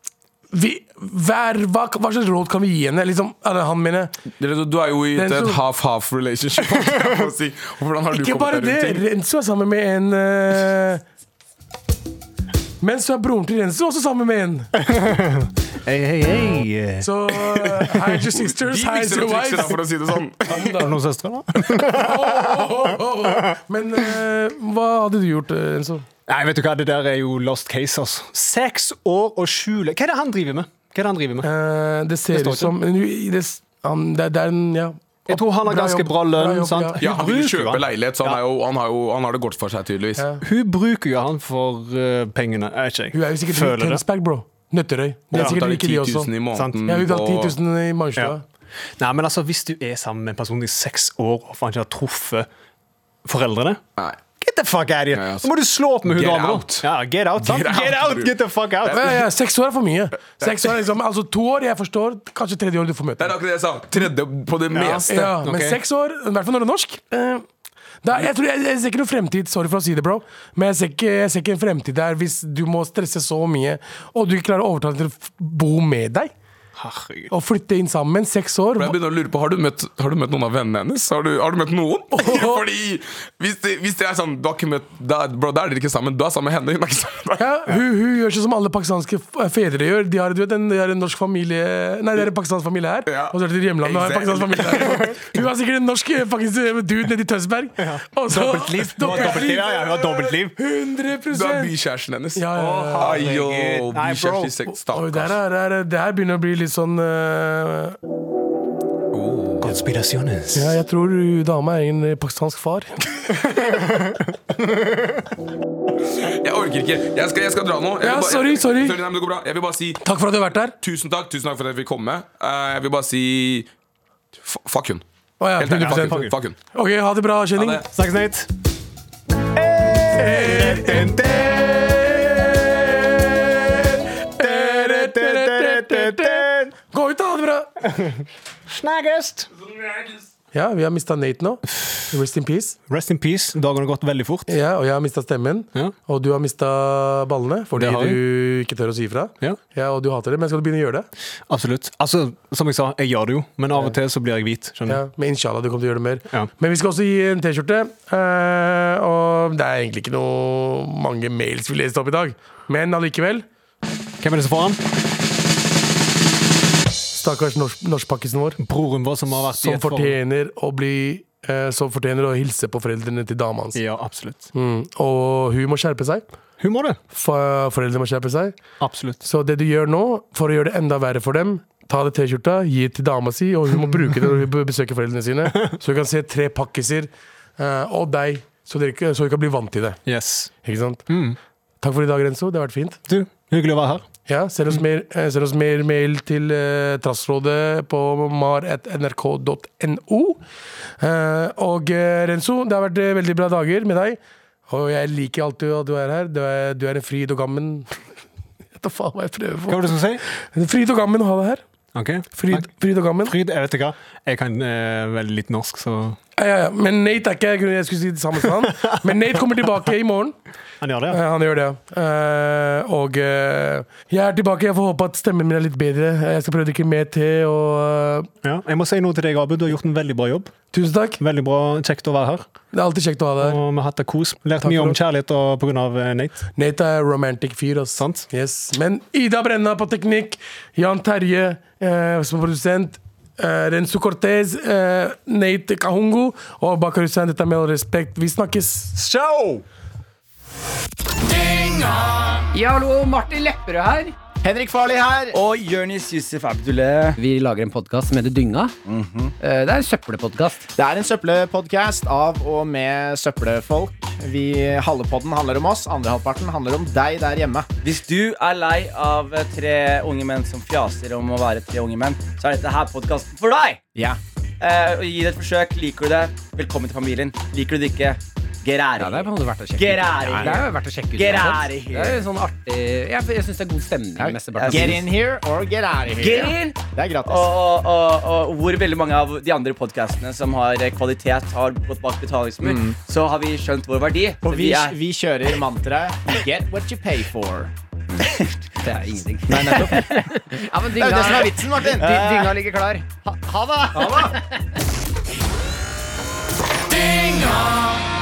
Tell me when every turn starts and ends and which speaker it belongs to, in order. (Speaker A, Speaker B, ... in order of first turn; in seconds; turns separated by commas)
Speaker A: 0.5-4.2, Speaker B: 4.4-9.0, Speaker A: 5.2-5.6, Speaker A: 8.1-11.0, Speaker A: 12.8-14.7, Speaker C: 14.8-17.1, Speaker A: 17.0-19.8, Speaker B: 18.4-20.7, Speaker A: 20.5-20.9, Speaker C: 20.6-22.7, Speaker A: 21.9-26.1, Speaker C: 26.3-31.5, Speaker A: 31.4-37.0, Speaker C: 32.3-32.8, Speaker C: 35.3-38.4, Speaker B: 37.0-40.3, Speaker C: 40.4-44.0, Speaker A: 43.1-46.3, Speaker B: 45.3-47.5, Speaker C: 45.3-45.6, Speaker C: 46.5-46.8, Speaker A: 46.8-48.4, Speaker C: 49.0-52.5, Speaker C: 53.2-53.8, Speaker C: 54.4-59.1, Speaker B: 55.1-55.5, Speaker B: 56.0-59.2, Speaker A: 58.9-63.3, Speaker B: 60.4-60.7, Speaker B: 63.2-65.3, Speaker C: 64.7-65.8, Speaker A: 65.1-67.4, Speaker A: 68.0-76.3, Speaker C: 76.8-77.3, Speaker A: 77.3-79.0, Speaker B: 78.8-87.7, Speaker A: 82.1-82.6, Speaker A: 87.4-99.9, Speaker B: 93.1-95.0, Speaker C: 94.8-95.2, Speaker C: 97.8-100.5, Speaker B: 99.1-99.5, Speaker A: 100.6-101.7, Speaker B: 101.3-105.4, Speaker A: 102.4-103.2, Speaker C: 102.5-104.6, Speaker A: 104.9-108.0, Speaker B: 109.1-109.8, Speaker C: 109.6-110.8, Speaker A: 110.5-113.0, Speaker B: 116.1-120.0, Speaker A: 118.0-119.0, Speaker A: 120.0-120.8, Speaker B: 120.8-123.7, Speaker B: 124.4-125.0, Speaker A: 125.4-127.8, Speaker B: 125.6-126.6, Speaker C: 125.8-126.3, Speaker B: 127.6-127.9, Speaker C: 127.9-128.5, Speaker C: 129.5-133.4, Speaker A: 130.1-131.1, Speaker A: 132.2-137.7, Speaker C: 134.4-136.7, Speaker C: 137.8-139.5, Speaker A: 140.5-142.8, Speaker C: 142.9-144.6, Speaker A: 144.5-151.1, Speaker C: 147.8-148.2, Speaker C: 151.5-155.0, Speaker A: 154.9-163.4, Speaker C: 164.2-164.8, Speaker A: 167.1-168.6, Speaker C: 168.6-170.2, Speaker A: 169.6-173.8, Speaker C: 173.7-174.5, Speaker A: 174.5-176.2, Speaker C: 176.6-177.0, Speaker A: 177.1-178.6, Speaker C: 178.8-179.2, Speaker A: 179.2-190.0, Speaker C: 183.7-184.3, Speaker C: 190.1-190.5, Speaker A: 190.6-191.1, Speaker C: 191.1-191.4, Speaker A: 191.8-193.0, Speaker C: 193.1-194.1, Speaker A: 194.3-200.4, Speaker A: 201.0-208.0, Speaker A: 208.8-211.6, Speaker C: 209.7-210.2, Speaker C: 211.9-216.2, Speaker A: 212.3-213.3, Speaker A: 216.4-220.3, Speaker C: 220.8-221.2, Speaker A: 221.1-228.3, Speaker C: 228.4-230.5, Speaker A: 230.7-231.2, Speaker C: 231.2-232.4, Speaker A: 232.7-233.6, Speaker C: 233.4-236.4, Speaker A: 234.6-235.0, Speaker A: 236.6-248.9, Speaker C: 238.0-238.3, Speaker D: 249.0-249.6, Speaker E: 252.5-254.1, Speaker F: 254.4-255.3, Speaker D: 255.3-257.2, Speaker G: 257.2-258.7, Speaker D: 258.9-259.3, Speaker G: 259.4-260.7, Speaker F: 260.8-267.7, Speaker D: 267.8-273.9, Speaker D: 274.6-282.1, Speaker G: 279.0-285.0, Speaker F: 280.3-280.6, Speaker F: 284.2-287.5, Speaker D: 284.5-285.1, Speaker D: 286.2-295.0, Speaker F: 292.6-292.9, Speaker F: 294.4-297.7, Speaker G: 298.8-302.4, Speaker D: 299.5-300.2, Speaker F: 299.5-300.0, Speaker F: 301.0-302.2, Speaker D: 301.9-302.6, Speaker E: 302.0-303.0, Speaker F: 303.2-304.3, Speaker D: 304.0-304.3, Speaker G: 306.9-308.0